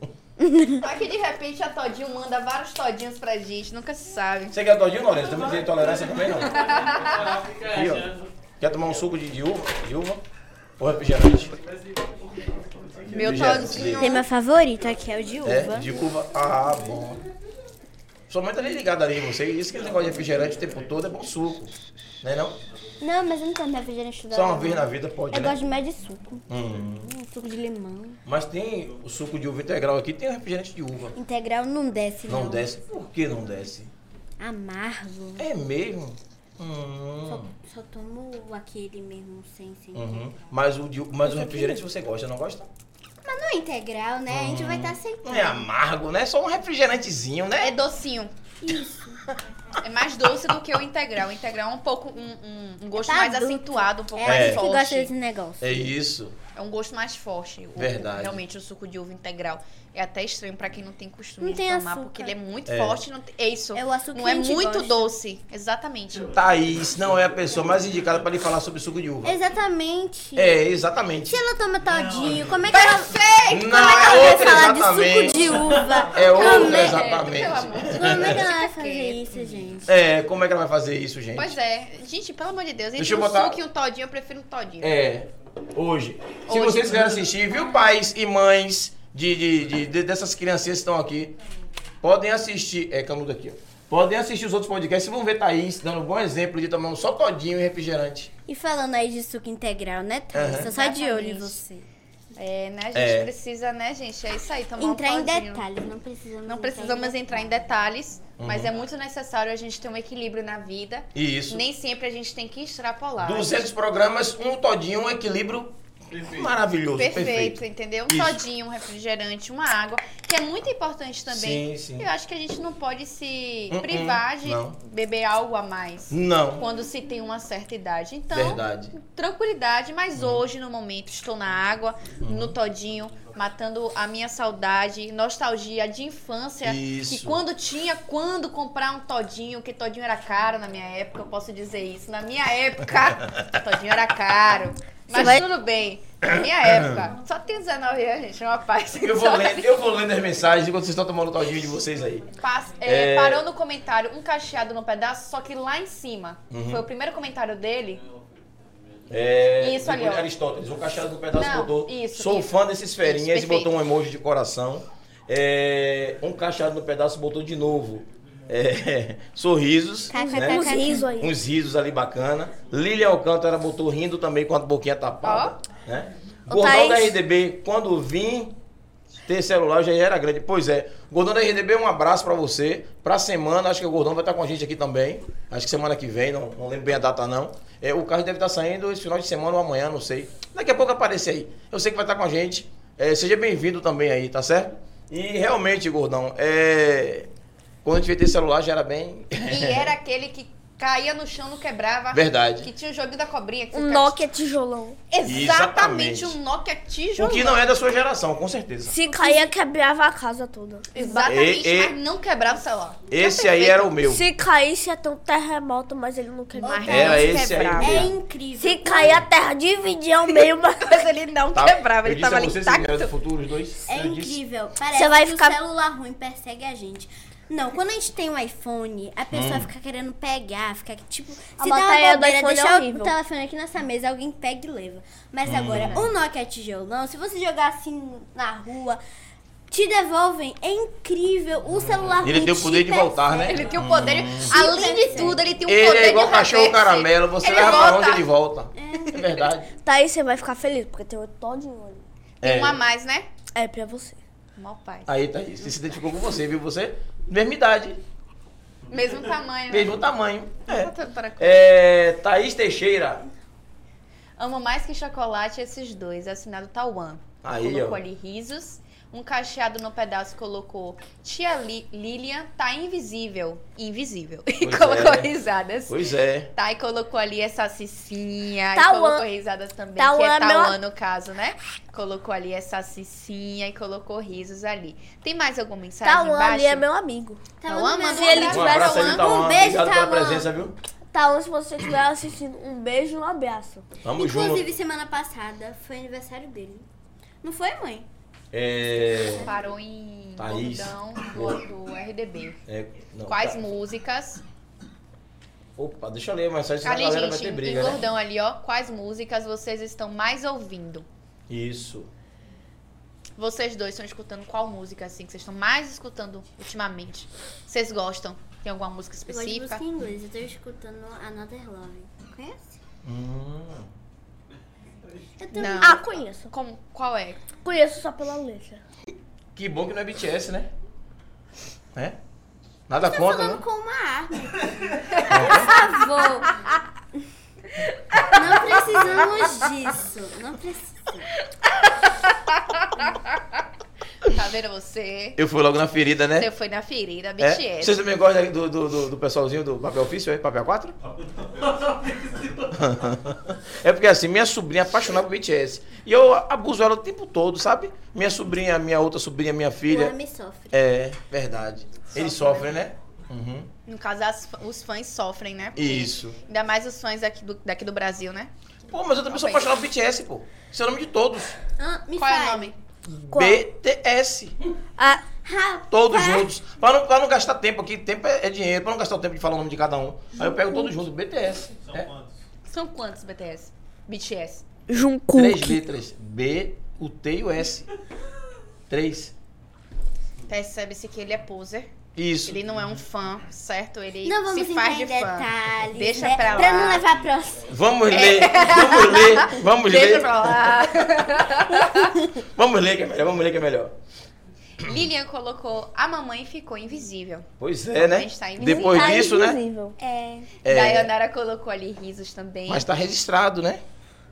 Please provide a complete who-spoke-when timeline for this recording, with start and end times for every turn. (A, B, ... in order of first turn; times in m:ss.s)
0:00.4-0:00.8 A
0:00.8-0:04.6 B
0:04.5-0:06.7 C
0:05.2-0:08.3 D
0:06.4-0:07.4 B
0:07.6-0:10.2 C
0:10.8-0:11.6 C
0:11.4-0:14.0 D
0:13.1-0:14.2 B
0:13.2-0:14.2 C
0:13.8-0:16.0 A
0:15.4-0:17.2 C
0:18.3-0:22.6 C
0:19.7-0:20.9 D
0:23.0-0:28.2 A
0:24.3-0:25.6 C
0:26.5-0:27.1 C
0:28.3-0:31.2 C
0:31.2-0:32.7 A
0:32.3-0:33.9 C
0:34.4-0:35.5 A
0:35.4-0:37.6 C
0:37.3-0:40.5 A
0:39.9-0:42.7 C
0:41.2-0:41.8 A
0:43.2-0:45.7 A
0:44.3-0:47.8 C
0:47.6-0:48.3 B
0:48.6-0:49.2 A
0:49.8-0:55.1 B
0:53.0-0:55.8 A
0:54.2-0:54.7 C
0:55.6-0:56.4 C
0:56.6-1:06.3 B
0:57.8-0:58.4 C
1:01.4-1:02.4 A
1:02.7-1:03.0 C
1:03.7-1:05.1 A
1:06.1-1:08.3 D
1:06.3-1:09.4 C
1:09.2-1:10.6 A
1:10.4-1:11.4 C
1:11.3-1:17.2 A
1:11.8-1:12.9 D
1:12.7-1:14.8 B
1:13.5-1:18.4 C
1:15.1-1:16.1 D
1:16.1-1:19.2 B
1:17.9-1:20.0 A
1:19.9-1:21.6 C
1:21.4-1:25.0 B
1:23.0-1:23.6 C
1:24.8-1:31.4 C
1:26.5-1:27.3 B
1:32.0-1:38.3 C
1:38.5-1:41.9 A
1:40.3-1:40.7 C
1:40.4-1:41.6 B
1:42.4-1:45.6 B
1:42.9-1:43.3 C
1:44.8-1:47.5 A
1:46.5-1:53.6 B
1:48.4-1:48.7 C
1:51.2-1:51.6 C
1:53.2-1:58.4 C
1:56.1-1:56.5 D
1:57.0-2:29.7 B
2:01.3-2:02.1 C
2:03.7-2:04.8 C
2:06.1-2:06.6 C
2:08.3-2:08.9 C
2:10.2-2:10.5 C
2:12.2-2:12.6 C
2:16.6-2:17.4 C
2:25.1-2:25.4 E
2:26.2-2:27.1 C
2:29.0-2:32.3 C
2:32.4-2:38.0 B
2:32.8-2:33.4 C
2:36.5-2:36.9 C
2:37.9-2:39.8 D
2:39.1-2:58.6 C
2:39.6-2:40.3 B
2:41.3-2:43.7 B
2:50.1-2:51.1 A
2:50.1-2:51.3 E
2:55.2-2:55.6 B
2:56.5-2:57.2 E
2:59.3-3:17.3 C
3:17.8-3:19.9 C
3:19.4-3:24.2 B
3:22.1-3:22.7 C
3:23.7-3:25.0 E
3:25.1-3:27.6 B
3:25.2-3:26.4 C
3:27.2-3:29.0 C
3:28.9-3:31.3 E
3:29.0-3:29.5 B
3:30.9-3:33.9 B
3:31.2-3:32.0 C
3:33.1-3:34.3 C
3:34.0-3:37.3 E
3:36.6-3:38.1 B
3:36.9-3:38.1 C
3:37.8-3:39.2 A
3:38.6-3:41.1 E
3:40.3-3:43.1 B
3:41.5-3:44.4 C
3:43.9-3:59.0 A
3:44.9-3:45.6 E
3:49.3-3:49.7 C
3:51.6-3:53.1 E
3:55.4-3:56.1 C
3:59.7-4:03.8 A
4:01.8-4:04.6 C
4:03.4-4:08.3 B
4:04.4-4:05.4 A
4:05.7-4:09.7 C
4:08.8-4:09.2 A
4:09.8-4:12.0 E
4:12.4-4:12.8 C
4:12.4-4:13.3 B
4:13.6-4:14.2 E
4:14.6-4:15.1 B
4:15.1-4:18.0 C
4:18.9-4:20.0 B
4:19.7-4:23.3 C
4:20.7-4:21.7 B
4:24.4-4:36.0 B
4:27.4-4:28.0 C
4:34.6-4:35.3 C
4:35.9-4:36.5 C
4:36.6-4:46.8 B
4:38.8-4:39.2 E
4:40.0-4:40.8 E
4:46.0-4:47.4 E
4:47.6-4:50.5 A
4:47.7-4:49.4 B
4:48.0-4:49.0 E
4:48.5-4:50.8 C
4:51.1-4:53.8 E
4:54.0-4:54.7 C
4:54.2-4:56.9 A
4:57.4-4:58.1 A
4:58.5-4:59.5 C
4:59.0-4:59.6 A
4:59.5-5:02.6 B
5:00.4-5:01.6 C
5:02.7-5:03.6 C
5:03.3-5:04.4 B
5:05.8-5:08.0 C
5:06.8-5:11.1 B
5:11.5-5:12.1 C
5:13.4-5:19.8 B
5:19.3-5:22.8 A
5:23.0-5:23.9 C
5:25.4-5:26.0 A
5:25.5-5:27.4 B
5:25.6-5:26.5 E
5:27.6-5:28.8 E
5:29.6-5:30.7 C
5:32.9-5:33.6 C
5:33.0-5:37.2 A
5:35.1-5:35.6 B
5:35.3-5:35.8 C
5:38.3-5:41.3 A
5:38.7-5:39.2 C
5:41.8-5:43.4 B
5:44.3-5:45.4 B
5:45.4-5:46.5 C
5:46.4-5:48.0 B
5:47.4-5:51.0 C
5:51.2-5:52.9 D
5:52.7-6:00.2 C
5:59.9-6:00.8 A
6:00.7-6:03.7 C
6:02.1-6:02.8 B
6:03.9-6:08.5 B
6:05.8-6:06.4 C
6:08.9-6:11.6 C
6:09.2-6:09.7 B
6:11.8-6:12.7 A
6:12.2-6:12.8 B
6:13.1-6:14.7 C
6:13.3-6:13.6 E
6:15.0-6:15.2 E
6:15.4-6:16.5 A
6:15.9-6:22.1 C
6:20.4-6:20.9 E
6:21.8-6:22.4 D
6:22.7-6:24.6 B
6:24.9-6:25.8 E
6:25.3-6:27.9 C
6:28.9-6:29.3 C
6:30.5-6:31.9 B
6:32.2-6:32.6 C
6:32.4-6:37.1 B
6:34.2-6:37.7 A
6:36.4-6:37.5 D
6:37.7-6:40.8 C
6:38.1-6:42.2 B
6:42.4-6:44.0 C
6:44.8-6:49.2 B
6:44.8-6:45.1 C
6:47.6-6:49.6 C
6:48.6-6:50.0 E
6:50.0-6:50.5 A
6:50.6-6:51.1 C
6:50.7-6:52.9 B
6:52.7-6:53.8 C